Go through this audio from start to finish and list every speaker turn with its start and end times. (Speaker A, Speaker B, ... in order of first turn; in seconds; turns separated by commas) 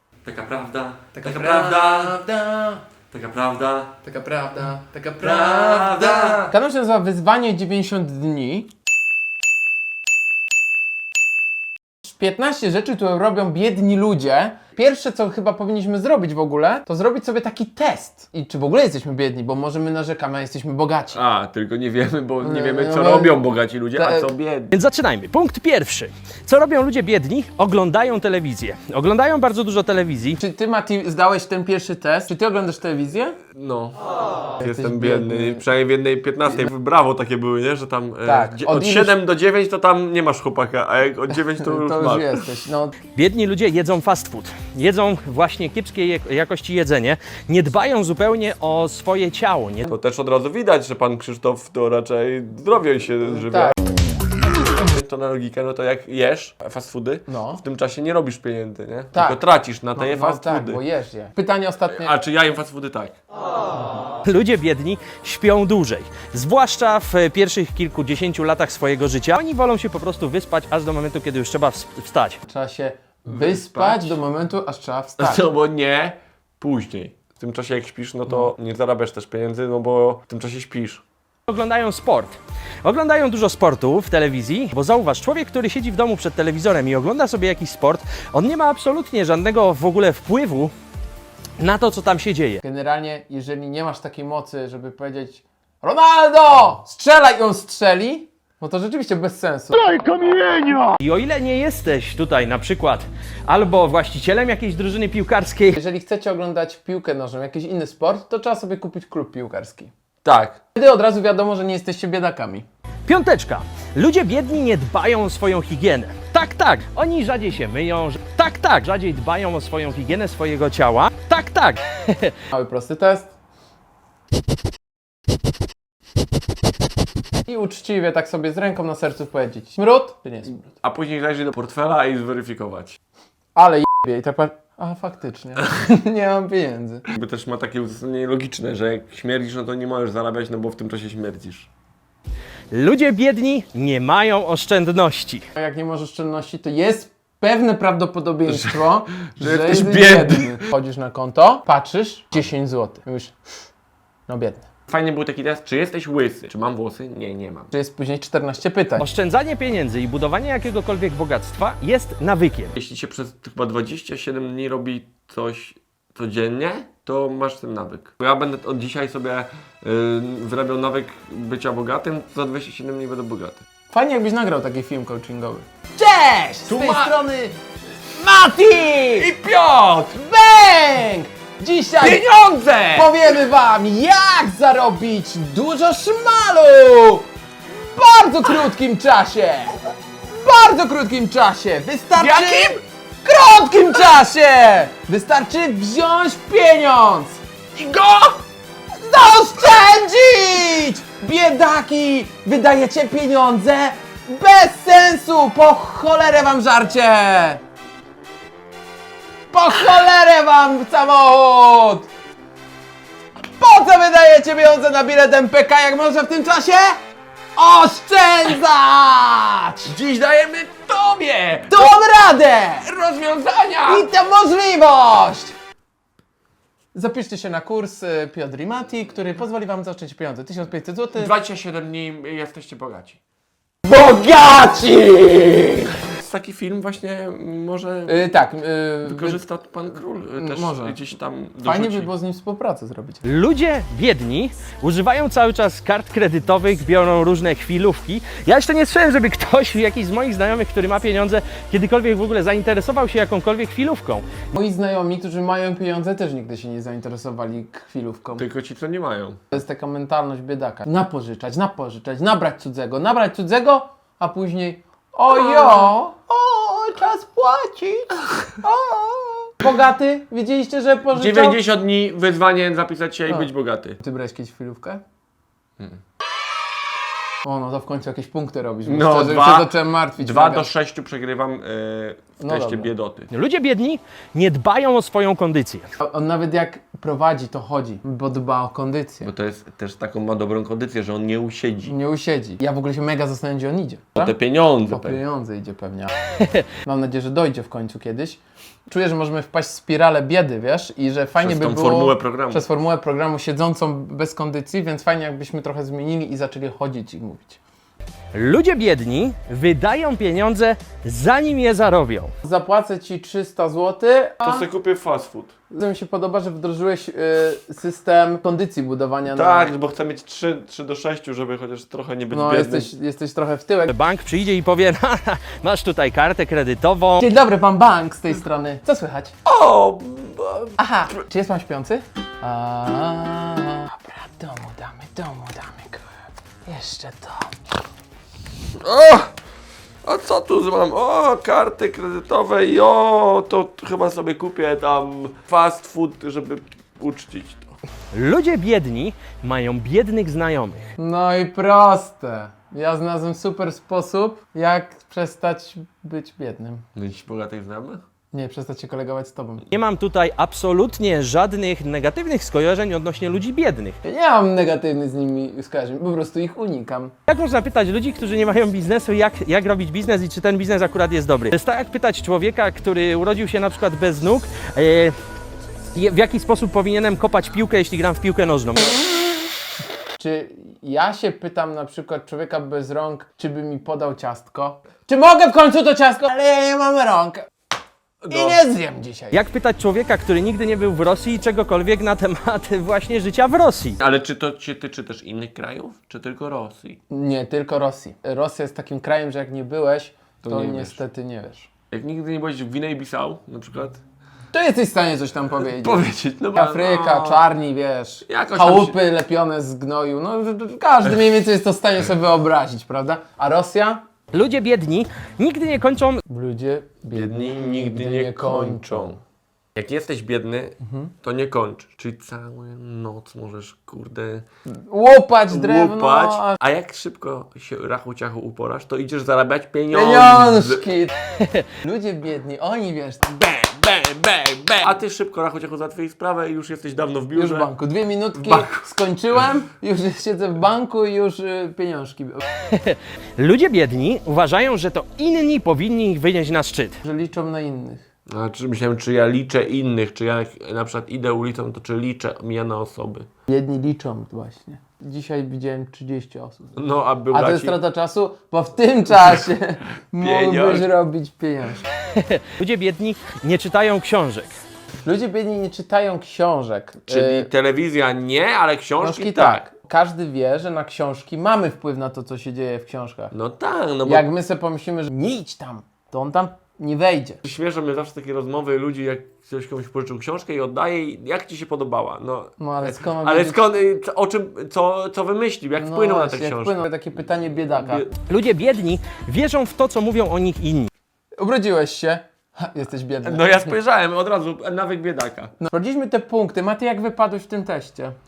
Speaker A: 0.2-2.2, Speaker B: 1.1-2.8, Speaker A: 3.1-4.0, Speaker B: 4.0-8.7, Speaker A: 5.2-6.5, Speaker B: 12.0-21.2, Speaker A: 21.1-24.7, Speaker B: 22.4-23.4, Speaker B: 23.9-24.3, Speaker C: 24.7-30.4, Speaker B: 30.4-33.4, Speaker A: 33.5-42.6, Speaker B: 34.6-35.6, Speaker B: 38.2-39.2, Speaker B: 41.5-43.0, Speaker C: 43.1-49.9, Speaker A: 49.9-53.8, Speaker B: 53.2-53.8, Speaker A: 54.7-60.8, Speaker B: 57.3-57.6, Speaker B: 59.1-59.4, Speaker B: 59.9-62.1, Speaker A: 61.9-63.2, Speaker C: 64.2-72.4, Speaker B: 72.4-75.4, Speaker A: 73.2-74.2, Speaker A: 75.2-81.0, Speaker C: 81.5-90.7, Speaker C: 91.6-92.6, Speaker B: 92.6-100.6, Speaker C: 101.0-105.8, Speaker B: 105.8-109.9, Speaker A: 110.2-110.6, Speaker B: 110.7-112.7, Speaker C: 113.0-122.3, Speaker B: 122.5-123.3, Speaker B: 127.5-130.7, Speaker A: 130.8-133.0, Speaker B: 133.5-137.1, Speaker A: 137.1-141.7, Speaker C: 142.7-145.4, Speaker B: 145.5-153.3, Speaker A: 148.4-150.7, Speaker B: 154.3-154.7, Speaker A: 154.9-157.7, Speaker B: 157.7-159.1, Speaker C: 159.0-162.7, Speaker A: 162.7-173.6, Speaker B: 173.9-179.3, Speaker A: 176.7-177.2, Speaker A: 179.1-180.2, Speaker B: 180.2-182.2, Speaker A: 182.0-183.3, Speaker B: 182.9-187.3, Speaker B: 187.9-189.8, Speaker B: 190.4-197.4, Speaker A: 192.2-192.8, Speaker A: 197.8-198.4, Speaker B: 198.9-207.6, Speaker B: 209.5-212.1, Speaker B: 213.6-217.0, Speaker B: 217.6-219.9, Speaker A: 219.9-222.1, Speaker B: 221.7-222.9, Speaker A: 222.7-224.1, Speaker B: 223.8-225.5, Speaker B: 226.9-231.3, Speaker A: 231.1-233.2, Speaker B: 233.8-235.9, Speaker A: 236.0-238.3, Speaker B: 238.1-239.4, Speaker A: 239.0-242.1, Speaker B: 240.3-241.0, Speaker B: 241.6-243.2, Speaker C: 243.2-254.2, Speaker B: 254.5-258.4, Speaker A: 258.4-259.4, Speaker B: 259.5-271.6, Speaker A: 265.3-265.9, Speaker A: 271.1-274.0, Speaker B: 273.3-275.0, Speaker B: 277.4-280.7, Speaker A: 278.8-283.3, Speaker B: 282.4-282.9, Speaker C: 283.3-285.9, Speaker B: 286.0-289.3, Speaker A: 289.2-291.9, Speaker B: 291.9-294.3, Speaker A: 294.1-295.2, Speaker B: 294.9-296.1, Speaker C: 296.4-296.6, Speaker B: 296.8-307.6, Speaker A: 301.4-302.6, Speaker C: 308.3-312.3, Speaker B: 312.4-314.7, Speaker A: 314.4-315.5, Speaker B: 315.7-319.7, Speaker A: 319.3-322.9, Speaker B: 322.3-323.9, Speaker C: 323.9-327.3, Speaker B: 327.2-329.3, Speaker A: 329.4-330.8, Speaker B: 330.8-336.0, Speaker B: 336.6-337.5, Speaker A: 338.8-339.3, Speaker A: 340.0-347.8, Speaker C: 348.1-350.8, Speaker B: 351.0-356.8, Speaker A: 356.9-358.0, Speaker B: 358.3-359.6, Speaker C: 359.7-364.0, Speaker B: 364.0-367.1, Speaker C: 367.3-375.1, Speaker C: 375.9-379.0, Speaker B: 380.2-387.5, Speaker A: 388.2-388.6, Speaker B: 388.3-389.4, Speaker C: 389.3-394.0, Speaker A: 394.0-397.0, Speaker B: 397.1-401.7, Speaker A: 400.4-401.0, Speaker A: 401.9-404.0, Speaker B: 404.5-414.0, Speaker A: 405.6-407.4, Speaker A: 408.2-409.0, Speaker C: 414.3-416.2, Speaker B: 416.3-419.1, Speaker A: 417.1-419.2, Speaker A: 419.7-424.4, Speaker B: 420.8-421.1, Speaker B: 424.7-426.6, Speaker A: 425.5-430.9, Speaker B: 429.9-431.1, Speaker C: 431.4-431.6, Speaker B: 431.8-433.4, Speaker A: 433.3-437.7, Speaker B: 437.3-442.4, Speaker A: 438.4-438.8, Speaker C: 442.7-447.0, Speaker B: 447.0-448.0, Speaker A: 448.3-453.3, Speaker B: 453.5-456.8, Speaker A: 456.7-457.8, Speaker B: 457.3-461.9, Speaker A: 460.2-460.9, Speaker C: 462.1-464.5, Speaker B: 465.0-467.5, Speaker A: 467.1-469.6, Speaker B: 469.0-473.3, Speaker A: 473.3-474.3, Speaker B: 474.0-477.4, Speaker A: 477.4-486.9, Speaker B: 482.6-483.6, Speaker B: 485.7-488.1, Speaker A: 487.5-488.1, Speaker C: 488.2-490.9, Speaker B: 491.4-493.7, Speaker A: 493.2-495.5, Speaker B: 495.6-498.1